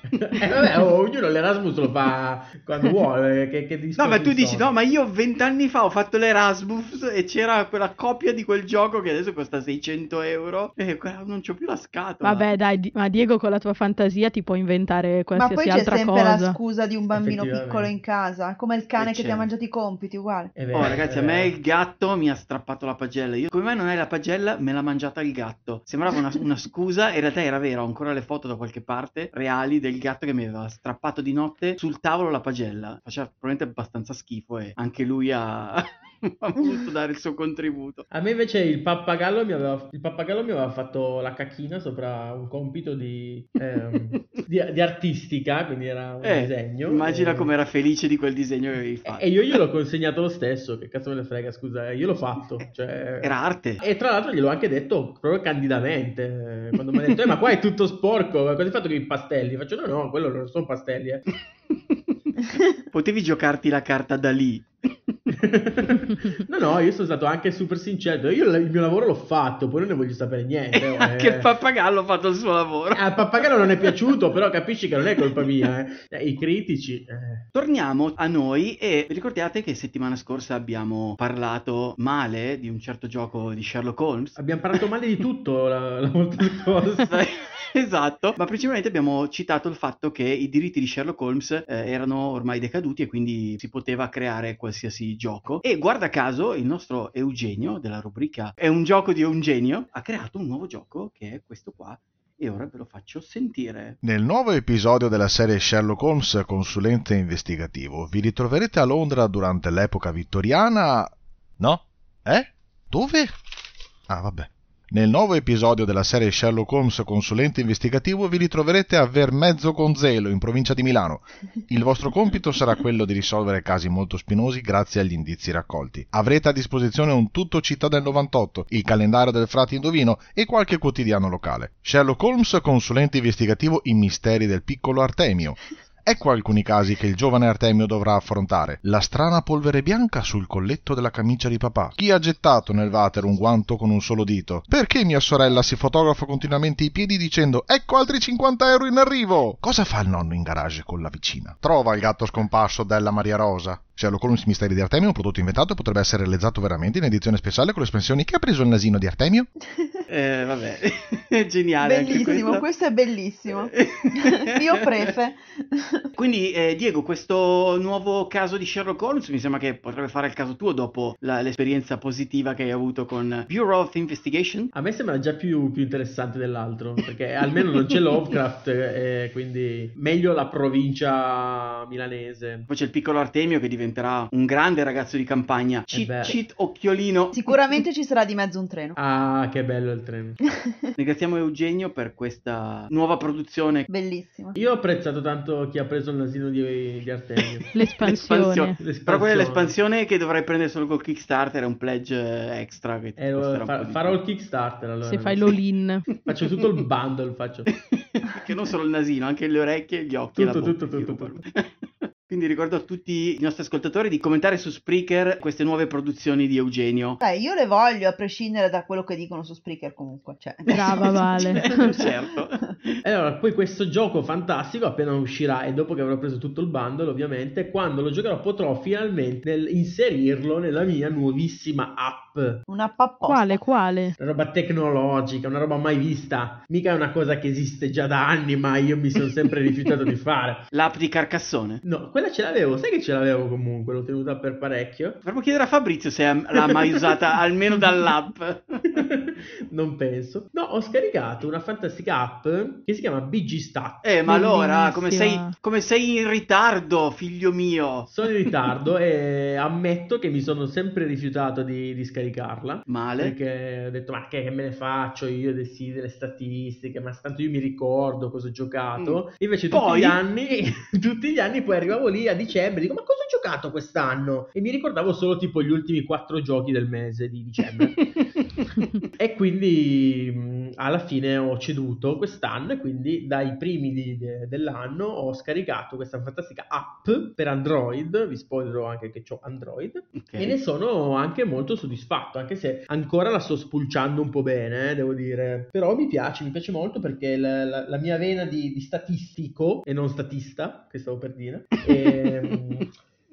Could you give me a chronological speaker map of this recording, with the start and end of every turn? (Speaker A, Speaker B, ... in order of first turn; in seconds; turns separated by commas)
Speaker A: 0.1-4.7, Speaker B: 4.0-12.5, Speaker C: 12.2-16.6, Speaker D: 15.3-20.5, Speaker A: 17.1-17.9, Speaker B: 19.0-19.5, Speaker A: 20.6-21.5, Speaker B: 20.7-38.0, Speaker A: 38.1-47.5, Speaker B: 46.2-49.5, Speaker A: 49.0-61.2, Speaker B: 53.2-53.8, Speaker B: 62.9-65.3, Speaker A: 65.3-71.5, Speaker B: 70.7-73.9, Speaker A: 72.9-77.4, Speaker B: 75.4-75.7, Speaker B: 77.5-84.4, Speaker A: 84.3-87.1, Speaker B: 87.1-104.0, Speaker E: 104.0-113.3, Speaker E: 114.1-159.5, Speaker B: 160.1-162.6, Speaker D: 161.8-166.1, Speaker B: 163.7-164.5, Speaker B: 166.2-174.7, Speaker A: 174.7-182.7, Speaker B: 182.7-187.3, Speaker A: 185.9-186.4, Speaker D: 187.3-189.0, Speaker A: 188.9-190.3, Speaker B: 191.0-193.9, Speaker D: 193.9-194.6, Speaker A: 194.5-197.7, Speaker C: 197.7-198.8, Speaker B: 198.0-204.2, Speaker A: 198.8-199.7, Speaker A: 203.2-205.5, Speaker C: 205.0-206.1, Speaker A: 206.3-207.7, Speaker B: 207.9-211.7, Speaker A: 210.3-211.4, Speaker B: 212.2-217.2, Speaker D: 217.2-222.1, Speaker C: 220.7-221.9, Speaker B: 220.7-222.9, Speaker A: 223.0-232.6, Speaker D: 232.7-233.6, Speaker C: 233.2-234.2, Speaker A: 234.2-240.6, Speaker B: 240.7-241.8, Speaker A: 241.8-245.2, Speaker B: 245.2-248.8, Speaker A: 248.9-254.0, Speaker B: 254.0-258.1, Speaker C: 254.2-255.5, Speaker A: 258.1-278.0, Speaker B: 262.9-263.3, Speaker B: 269.7-270.2, Speaker A: 279.2-302.9, Speaker B: 290.1-290.6